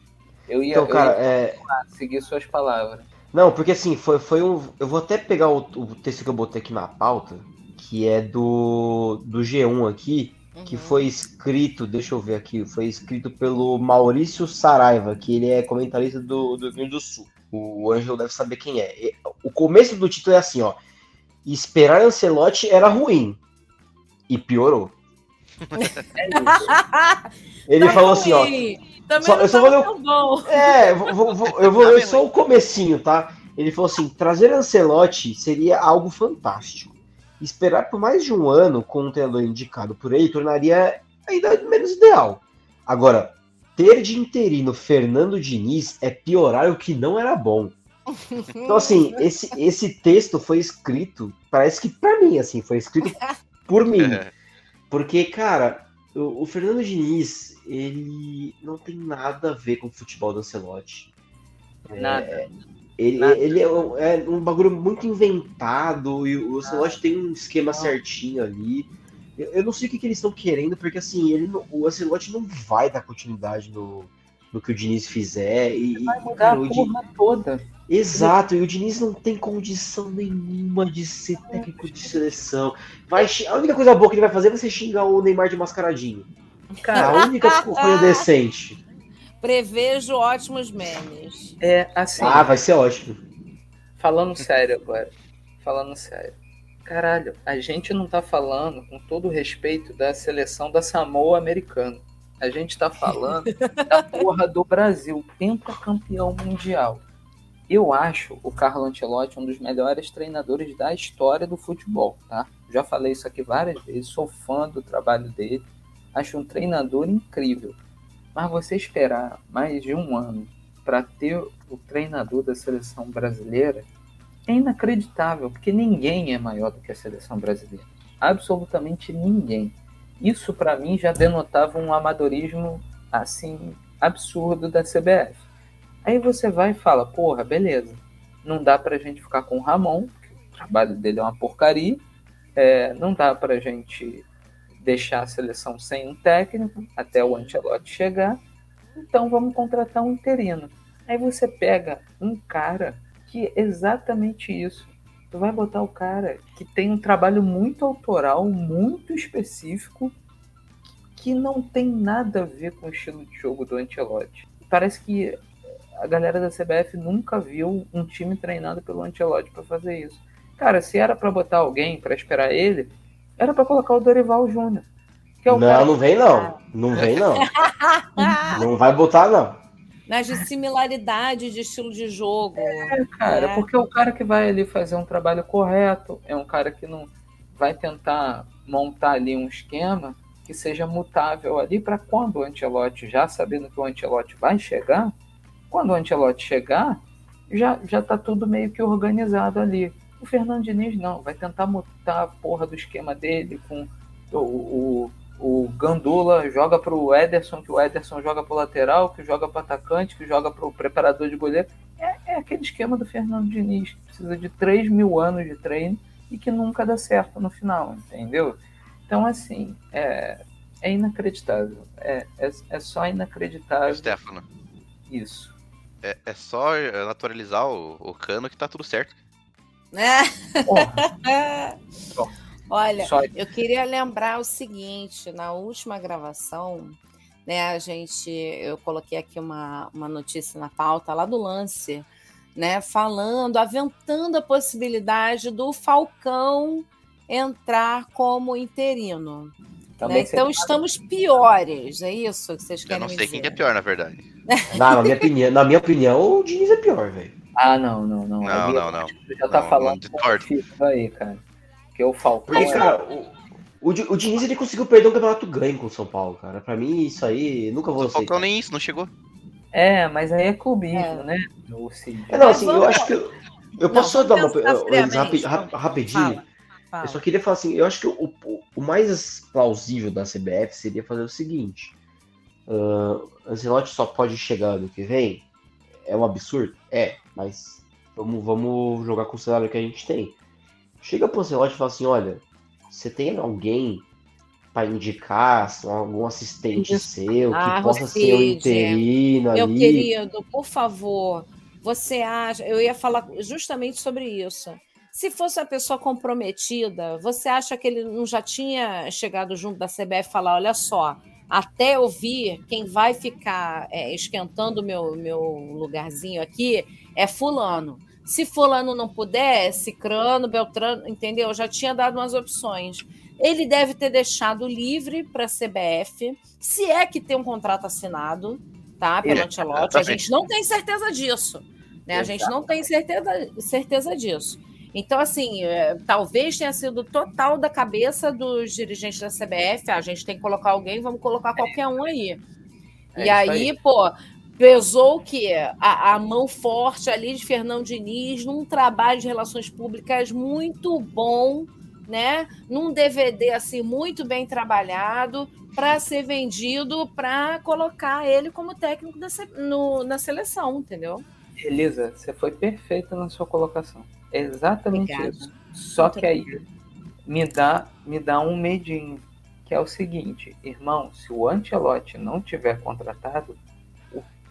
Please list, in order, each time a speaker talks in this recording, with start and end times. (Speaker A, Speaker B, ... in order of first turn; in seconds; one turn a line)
Speaker A: 0.5-3.1
Speaker B: 0.7-1.6
Speaker B: 3.3-20.8
Speaker C: 10.5-11.1
Speaker B: 21.4-23.4
Speaker B: 24.3-24.9
Speaker C: 25.8-27.2
Speaker A: 26.2-26.7
Speaker B: 27.7-28.6
Speaker C: 27.8-30.8
Speaker B: 29.2-29.9
Speaker B: 30.4-47.7
Speaker D: 31.7-32.2
Speaker C: 48.1-49.2
Speaker B: 48.7-53.1
Speaker B: 53.7-54.2
Speaker D: 54.0-54.3
Speaker B: 54.9-61.1
Speaker B: 61.9-62.4
Speaker A: 62.0-62.5
Speaker B: 63.0-76.9
Speaker A: 63.1-63.9
Speaker A: 66.6-67.0
Speaker A: 67.7-68.0
Speaker A: 76.0-78.3
Speaker B: 77.9-86.3
Speaker A: 81.5-82.0
Speaker A: 86.8-87.2
Speaker C: 86.9-88.2
Speaker B: 86.9-88.8
Speaker C: 89.4-91.5
Speaker A: 91.6-92.6
Speaker B: 92.2-93.2
Speaker C: 92.2-92.4
Speaker A: 94.0-96.3
Speaker A: 96.8-107.0
Speaker A: 107.7-117.8
Speaker A: 118.3-123.9
Speaker A: 124.5-135.4
Speaker A: 136.0-142.0
Speaker A: 142.6-144.2
Speaker A: 144.8-148.4
Speaker C: 147.2-147.6
Speaker A: 148.9-160.1
Speaker A: 161.1-165.4
Speaker A: 166.0-174.8
Speaker A: 175.4-175.9
Speaker B: 175.5-177.5
Speaker C: 177.5-178.6
Speaker A: 178.2-178.5
Speaker B: 178.5-179.6
Speaker C: 180.1-183.7
Speaker A: 182.6-195.1
Speaker A: 195.7-224.2
Speaker D: 223.9-224.4
Speaker A: 225.1-225.5
Speaker D: 226.0-229.2
Speaker C: 229.9-231.8
Speaker A: 230.7-231.1
Speaker C: 232.7-253.6
Speaker A: 233.0-233.3
Speaker A: 250.0-250.8
Speaker D: 252.8-254.2
Speaker C: 254.5-255.2
Speaker B: 254.7-257.3
Speaker A: 257.6-261.4
Speaker D: 258.4-260.4
Speaker A: 261.9-262.9
Speaker B: 262.5-268.4
Speaker D: 267.9-269.1
Speaker A: 269.7-272.7
Speaker C: 270.9-271.3
Speaker B: 272.3-276.4
Speaker C: 272.4-273.1
Speaker C: 273.9-277.2
Speaker B: 277.0-281.9
Speaker B: 282.7-285.4
Speaker B: 286.0-290.4
Speaker B: 291.0-294.1
Speaker B: 294.7-300.1
Speaker A: 296.7-297.1
Speaker C: 297.5-342.4
Speaker D: 329.3-330.3
Speaker A: 332.1-332.6
Speaker A: 341.6-342.1
Speaker A: 343.1-343.7
Speaker C: 343.2-361.2
Speaker A: 361.6-366.6
Speaker C: 364.9-366.3
Speaker A: 367.2-373.6